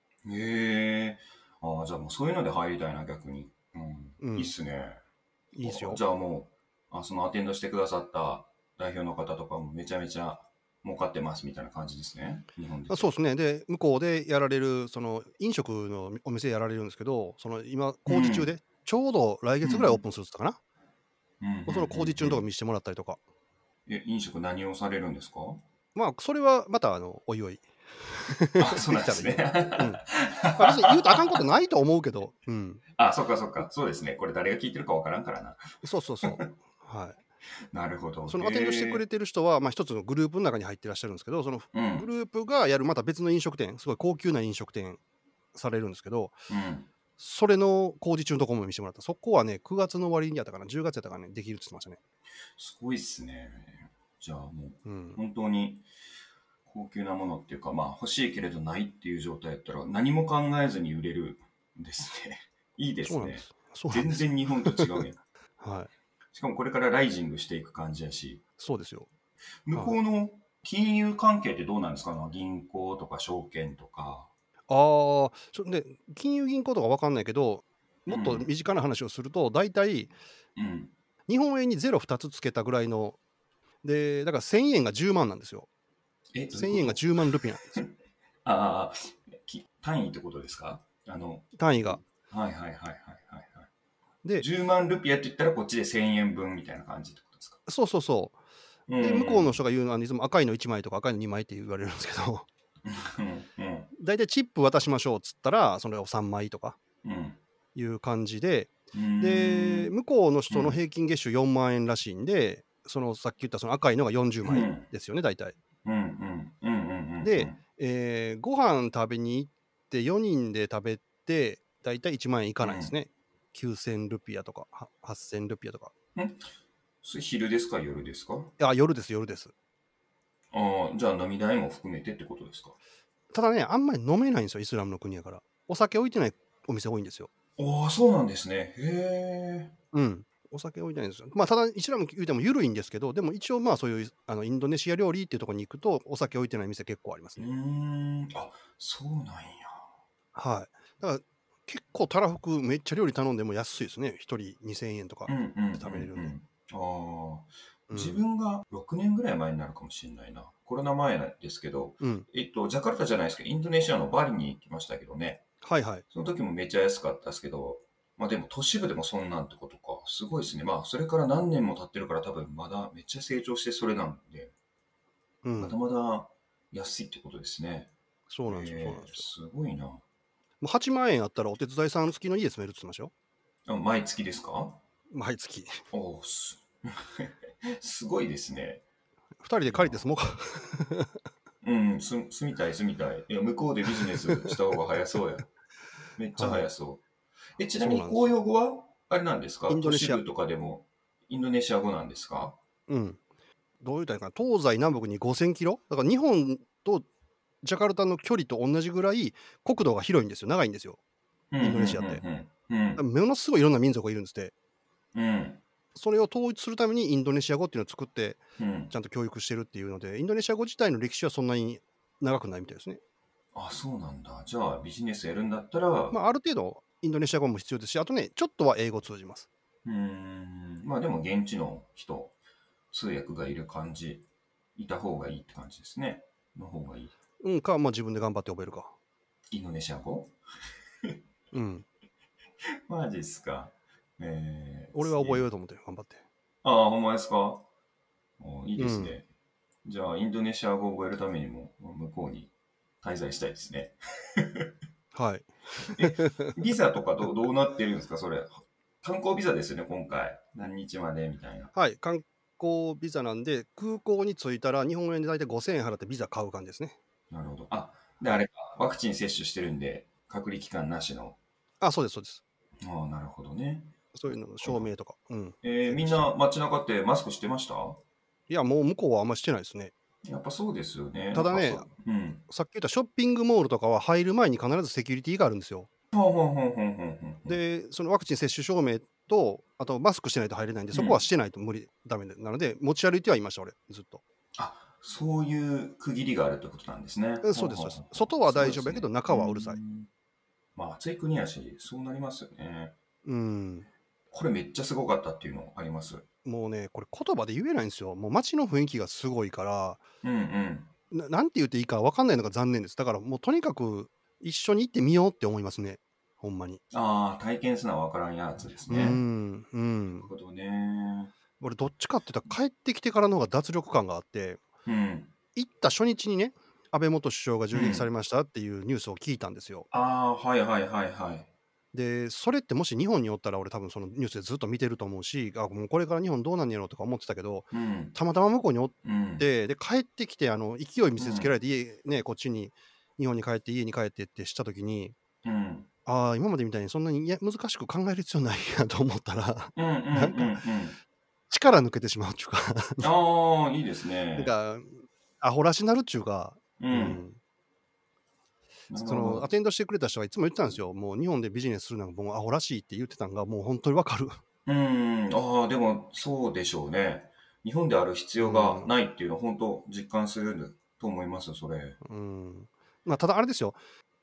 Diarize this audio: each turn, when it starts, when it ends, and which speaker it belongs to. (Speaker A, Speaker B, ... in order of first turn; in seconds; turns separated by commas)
Speaker A: 0.2-5.0, Speaker B: 4.2-4.5, Speaker B: 5.5-6.0, Speaker A: 5.6-13.1, Speaker B: 12.9-20.6, Speaker A: 18.1-18.5, Speaker A: 19.6-20.0, Speaker A: 21.4-22.4, Speaker B: 21.7-23.2, Speaker A: 23.9-25.6, Speaker B: 25.9-30.0, Speaker A: 28.6-31.0, Speaker B: 30.5-32.8, Speaker A: 33.0-35.6, Speaker B: 35.8-37.2, Speaker A: 37.7-39.0, Speaker B: 38.3-45.0, Speaker A: 41.7-42.1, Speaker B: 45.5-46.4, Speaker A: 46.5-46.9, Speaker B: 47.2-52.0, Speaker A: 52.6-55.9, Speaker B: 54.8-55.2, Speaker A: 56.6-65.2, Speaker B: 63.0-64.9, Speaker B: 65.6-65.9, Speaker A: 66.3-68.4, Speaker B: 68.6-69.1, Speaker A: 69.7-74.3, Speaker B: 74.7-80.1, Speaker A: 78.1-78.5, Speaker A: 80.5-80.9, Speaker B: 81.3-83.2, Speaker B: 83.8-85.7, Speaker A: 86.3-87.9, Speaker B: 86.5-87.8, Speaker A: 88.4-93.7, Speaker B: 91.6-92.0, Speaker A: 94.4-97.6, Speaker B: 97.7-98.3, Speaker A: 98.9-99.6, Speaker B: 99.0-102.5, Speaker A: 102.8-103.9, Speaker B: 104.0-106.8, Speaker A: 107.0-107.4, Speaker B: 107.7-115.5, Speaker A: 108.9-109.9, Speaker A: 110.5-110.8, Speaker A: 114.4-114.9, Speaker A: 115.8-117.6, Speaker B: 117.2-125.9, Speaker A: 122.6-122.9, Speaker A: 126.1-126.5, Speaker A: 127.0-128.5, Speaker B: 128.6-129.5, Speaker A: 130.5-132.8, Speaker B: 133.3-137.3, Speaker A: 137.6-139.7, Speaker B: 139.9-147.5, Speaker A: 147.4-149.8, Speaker B: 150.3-156.3, Speaker A: 155.3-165.4, Speaker B: 157.9-158.2, Speaker B: 162.0-162.3, Speaker B: 165.6-166.0, Speaker A: 166.1-174.5, Speaker B: 175.4-175.8, Speaker A: 175.6-177.9, Speaker B: 178.3-179.3, Speaker A: 178.5-180.0, Speaker B: 180.6-183.1, Speaker A: 183.7-184.8, Speaker B: 185.1-185.8, Speaker A: 185.9-188.8, Speaker B: 189.4-191.1, Speaker A: 189.7-190.0, Speaker A: 191.6-195.5, Speaker A: 196.2-197.0, Speaker B: 196.4-196.6, Speaker A: 197.6-202.6, Speaker B: 197.8-198.3, Speaker B: 199.7-200.2, Speaker B: 202.9-203.2, Speaker B: 203.8-207.1, Speaker B: 207.6-211.0, Speaker A: 211.5-213.0, Speaker B: 211.6-212.2, Speaker B: 213.0-214.5, Speaker A: 215.1-215.6, Speaker B: 215.9-223.0, Speaker A: 218.6-218.9, Speaker A: 223.5-226.2, Speaker B: 226.1-229.5, Speaker A: 229.8-232.3, Speaker A: 232.9-237.1, Speaker B: 237.4-238.9, Speaker A: 239.5-240.3, Speaker B: 241.5-241.8, Speaker A: 242.9-245.4, Speaker B: 244.9-246.2, Speaker A: 246.6-247.7, Speaker A: 248.4-249.2, Speaker B: 248.8-249.2, Speaker A: 249.8-252.5, Speaker A: 253.0-254.7, Speaker B: 255.1-256.5, Speaker A: 255.9-261.7, Speaker B: 261.7-267.0, Speaker A: 267.3-271.4, Speaker B: 271.8-272.4, Speaker A: 272.8-273.9, Speaker B: 274.1-276.3, Speaker A: 274.6-274.9, Speaker A: 275.6-278.0, Speaker B: 278.5-279.9, Speaker A: 280.2-282.4, Speaker B: 281.3-281.9, Speaker B: 282.5-285.9, Speaker A: 286.1-287.6, Speaker B: 287.4-294.2, Speaker A: 290.9-291.2, Speaker A: 294.6-300.1, Speaker B: 297.4-299.8, Speaker A: 300.8-302.9, Speaker B: 303.2-303.9, Speaker A: 304.3-306.2, Speaker B: 306.4-310.0, Speaker A: 310.2-310.9, Speaker B: 311.1-316.8, Speaker A: 316.9-319.2, Speaker B: 318.9-320.3, Speaker A: 320.1-321.3, Speaker B: 321.6-324.6, Speaker A: 324.8-325.3, Speaker B: 325.5-329.9, Speaker A: 327.7-328.1, Speaker A: 329.9-331.5, Speaker B: 331.9-345.1, Speaker A: 337.7-338.1, Speaker A: 339.0-339.4, Speaker A: 341.2-341.5, Speaker A: 345.4-345.9, Speaker B: 346.1-350.6, Speaker A: 349.7-351.0, Speaker B: 351.5-353.1, Speaker A: 353.0-354.5, Speaker B: 354.4-357.4, Speaker A: 356.8-357.2, Speaker A: 358.9-359.5, Speaker B: 359.0-364.4, Speaker A: 364.6-372.0, Speaker B: 368.4-368.9, Speaker B: 372.0-373.8